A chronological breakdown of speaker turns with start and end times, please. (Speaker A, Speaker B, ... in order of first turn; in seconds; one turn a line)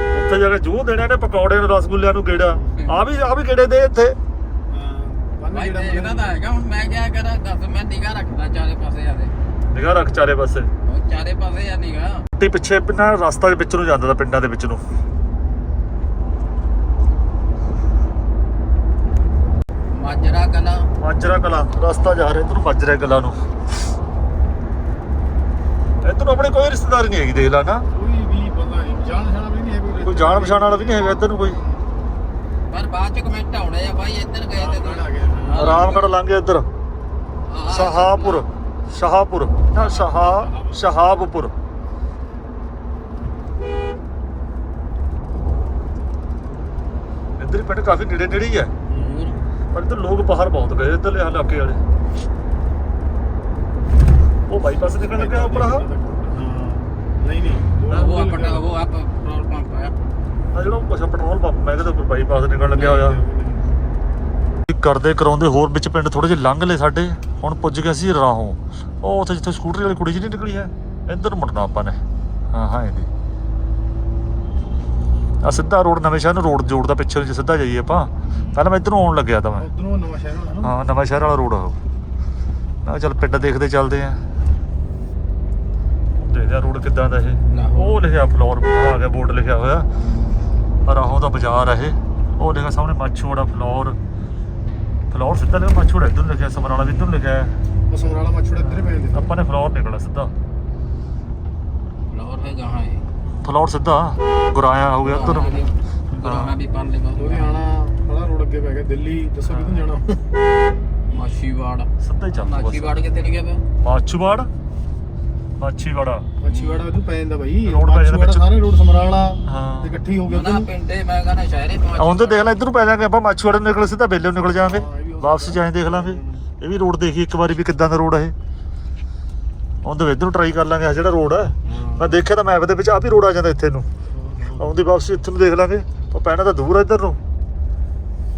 Speaker A: 0.1-4.2
Speaker B: 2.4-2.8
Speaker B: 4.7-6.3
Speaker C: 5.5-9.3
Speaker A: 9.7-10.7
Speaker C: 10.8-12.2
Speaker A: 12.3-14.8
Speaker C: 19.9-20.9
Speaker A: 21.0-23.4
Speaker C: 21.8-22.1
Speaker A: 26.0-27.8
Speaker B: 27.9-31.8
Speaker A: 30.0-31.6
Speaker C: 32.7-36.1
Speaker B: 34.5-36.0
Speaker A: 35.5-36.7
Speaker C: 37.5-38.5
Speaker A: 37.7-41.5
Speaker C: 39.7-40.1
Speaker B: 39.9-41.0
Speaker A: 47.4-48.7
Speaker B: 48.9-49.3
Speaker C: 48.9-49.4
Speaker A: 49.7-51.8
Speaker A: 54.5-55.9
Speaker B: 55.0-58.6
Speaker C: 57.9-59.9
Speaker A: 60.5-63.2
Speaker B: 62.7-63.8
Speaker A: 64.7-72.0
Speaker A: 72.5-73.1
Speaker A: 75.4-79.7
Speaker B: 79.6-80.8
Speaker A: 80.6-81.8
Speaker A: 82.8-84.2
Speaker A: 86.2-89.9
Speaker C: 87.5-88.0
Speaker A: 90.8-94.0
Speaker A: 95.1-97.5
Speaker B: 97.9-99.3
Speaker A: 98.6-100.3
Speaker C: 102.1-103.0
Speaker A: 103.4-105.6
Speaker C: 105.0-107.6
Speaker A: 106.2-106.5
Speaker B: 107.2-110.1
Speaker C: 109.5-109.9
Speaker C: 111.1-113.6
Speaker A: 112.0-113.0
Speaker A: 113.8-114.5
Speaker A: 115.6-116.3
Speaker B: 116.4-120.7
Speaker C: 116.5-116.9
Speaker A: 117.6-118.5
Speaker A: 119.5-120.0
Speaker C: 120.3-122.5
Speaker A: 122.0-128.3
Speaker B: 124.7-126.4
Speaker A: 129.8-133.9
Speaker B: 131.7-132.1
Speaker B: 134.1-134.8
Speaker A: 134.6-137.2